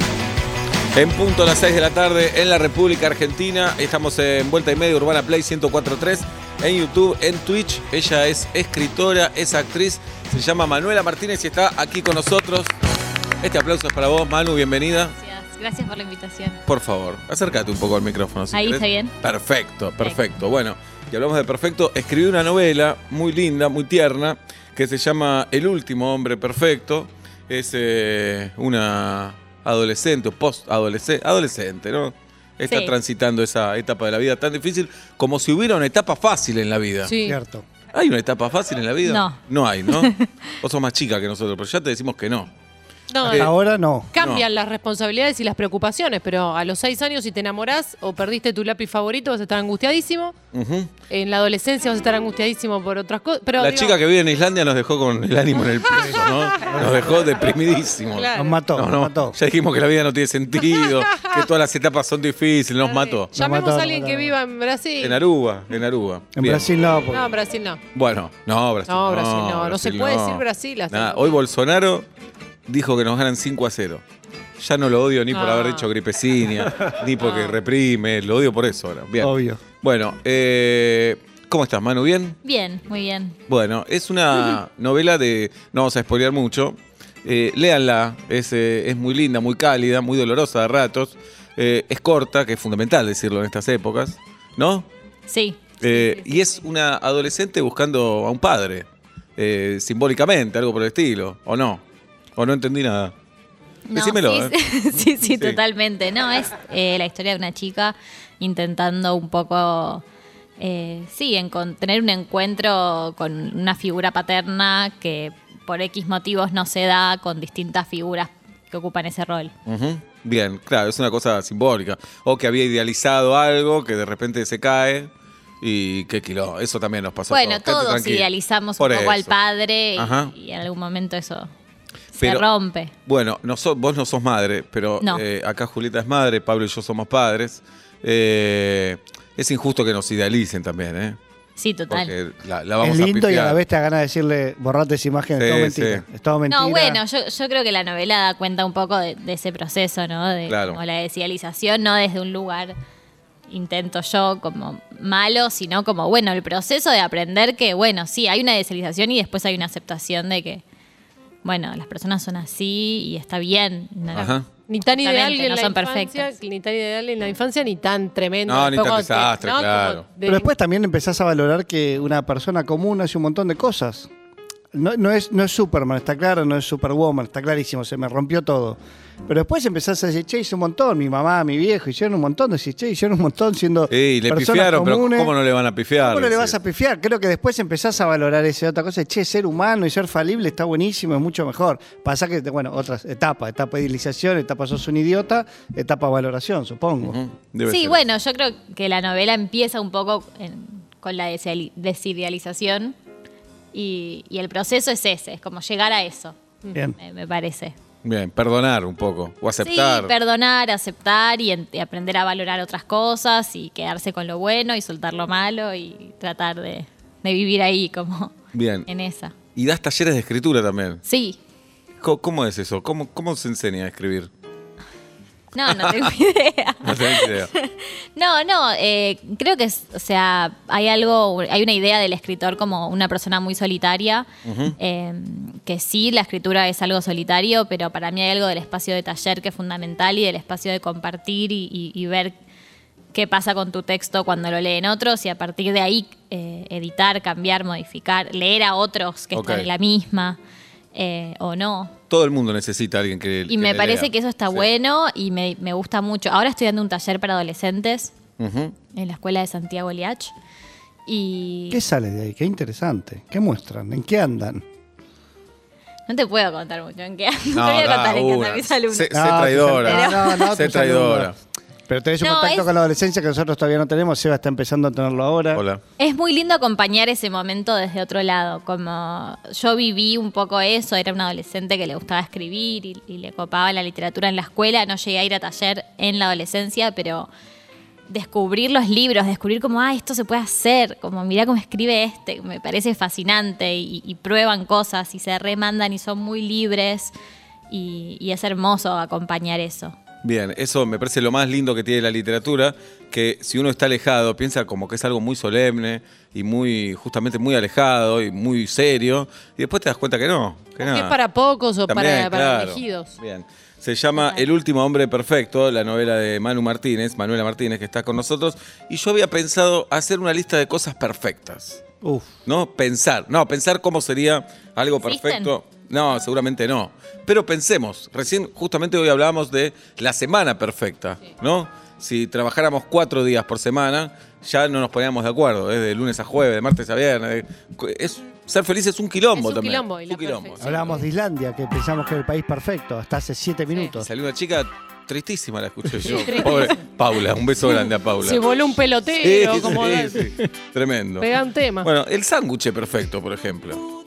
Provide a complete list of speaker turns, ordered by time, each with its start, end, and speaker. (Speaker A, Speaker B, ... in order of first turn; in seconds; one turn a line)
Speaker A: 0.9-12.7
Speaker A: 13.4-15.2
Speaker B: 15.2-16.6
Speaker A: 16.7-37.1
Speaker B: 18.5-19.1
Speaker B: 32.7-33.0
Speaker C: 37.0-37.4
Speaker D: 37.2-37.7
Speaker A: 37.9-42.5
Speaker B: 39.0-40.3
Speaker C: 43.1-43.5
Speaker D: 43.2-44.1
Speaker A: 43.3-43.5
Speaker C: 44.1-50.4
Speaker A: 44.2-44.5
Speaker A: 50.5-50.9
Speaker C: 51.1-54.0
Speaker A: 53.6-63.3
Speaker D: 55.9-57.0
Speaker C: 56.0-56.8
Speaker C: 58.1-58.6
Speaker D: 58.4-59.4
Speaker C: 60.8-61.3
Speaker C: 62.8-65.2
Speaker D: 63.4-64.3
Speaker A: 65.0-66.7
Speaker D: 66.4-67.3
Speaker C: 67.1-67.8
Speaker A: 67.9-72.1
Speaker C: 68.9-71.4
Speaker A: 72.7-74.0
Speaker A: 74.6-82.4
Speaker C: 75.3-75.9
Speaker C: 77.2-77.6
Speaker D: 79.2-79.6
Speaker B: 82.5-83.4
Speaker A: 83.5-94.9
Speaker B: 95.3-95.5
Speaker A: 95.8-98.9
Speaker A: 99.4-101.8
Speaker A: 102.4-103.1
Speaker B: 103.9-110.0
Speaker A: 103.9-105.6
Speaker B: 110.6-119.5
Speaker A: 119.7-125.1
Speaker A: 125.6-129.4
Speaker B: 127.3-131.5
Speaker A: 129.9-130.3
Speaker A: 132.2-132.5
Speaker B: 132.2-132.9
Speaker A: 133.1-141.2
Speaker B: 141.6-142.1
Speaker A: 141.9-143.6
Speaker D: 142.8-147.0
Speaker A: 145.4-146.0
Speaker B: 146.5-152.7
Speaker A: 150.5-150.8
Speaker B: 153.5-160.6
Speaker B: 161.4-164.3
Speaker A: 164.1-164.5
Speaker C: 164.1-170.5
Speaker B: 165.0-166.3
Speaker A: 168.5-170.1
Speaker D: 170.2-174.1
Speaker D: 174.7-185.3
Speaker A: 183.9-186.6
Speaker D: 186.0-197.2
Speaker A: 197.0-198.0
Speaker B: 197.7-202.9
Speaker B: 203.7-206.3
Speaker B: 207.0-207.8
Speaker A: 208.0-210.1
Speaker B: 209.6-218.3
Speaker A: 218.5-218.9
Speaker B: 218.9-219.3
Speaker A: 219.6-221.0
Speaker B: 221.1-221.4
Speaker A: 222.0-224.3
Speaker B: 225.6-234.3
Speaker A: 225.7-226.1
Speaker A: 226.8-227.5
Speaker A: 234.4-234.8
Speaker B: 234.8-242.3
Speaker B: 243.1-250.4
Speaker A: 249.3-249.7
Speaker B: 250.9-251.9
Speaker A: 252.1-254.7
Speaker B: 253.5-258.1
Speaker A: 258.4-258.8
Speaker B: 259.0-260.3
Speaker B: 261.1-261.8
Speaker D: 261.7-264.6
Speaker B: 266.1-269.2
Speaker A: 267.5-271.4
Speaker D: 269.1-271.3
Speaker B: 269.9-270.5
Speaker D: 271.9-275.6
Speaker B: 272.2-272.7
Speaker A: 275.5-275.8
Speaker B: 276.0-287.3
Speaker B: 288.1-297.1
Speaker B: 297.7-299.9
Speaker A: 300.2-311.2
Speaker C: 310.8-313.1
Speaker A: 311.9-321.8
Speaker D: 322.0-322.3
Speaker A: 322.5-340.6
Speaker B: 325.0-325.5
Speaker C: 339.3-341.1
Speaker D: 340.6-344.1
Speaker A: 344.0-348.5
Speaker C: 346.0-346.8
Speaker C: 347.6-350.3
Speaker A: 349.2-351.3
Speaker C: 351.2-351.9
Speaker A: 351.8-353.8